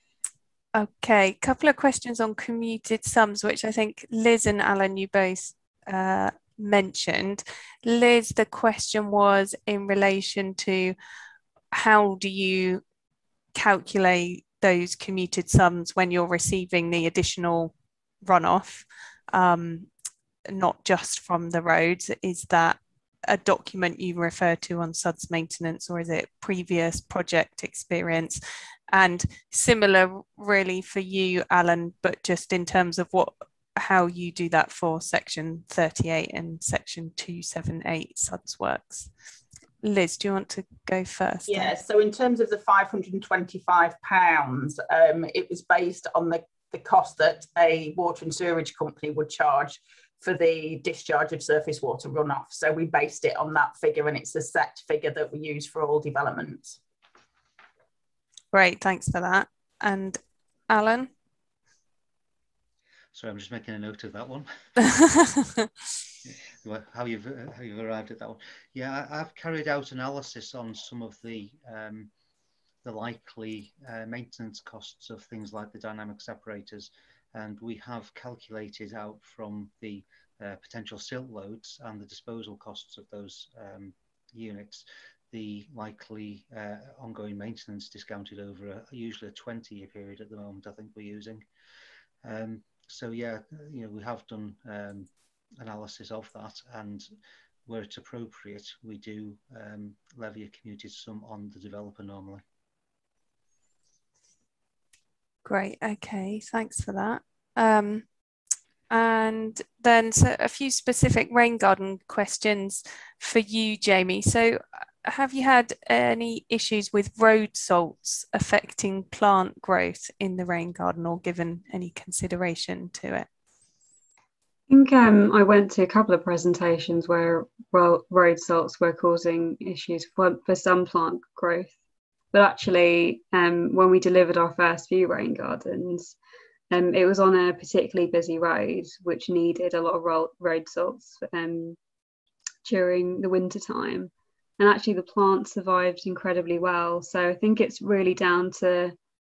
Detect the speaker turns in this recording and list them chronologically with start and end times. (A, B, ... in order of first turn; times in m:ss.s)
0:00.7-0:10.9 A
0:11.7-0:12.8 A
0:13.5-0:19.9 A
0:20.5-0:28.4 A
0:28.9-0:39.1 A
0:39.8-0:41.7 A
0:41.5-0:56.8 B
0:58.5-1:01.1 A
1:03.1-1:04.9 C
1:04.9-1:05.6 A
1:06.2-1:12.1 C
1:12.8-1:31.4 C
1:32.2-1:37.1 C
1:37.6-1:42.4 C
1:45.4-1:48.0 A
1:48.9-2:03.3 A
2:04.7-2:11.7 D
2:12.3-2:16.2 D
2:16.7-2:21.8 D
2:22.6-2:28.9 D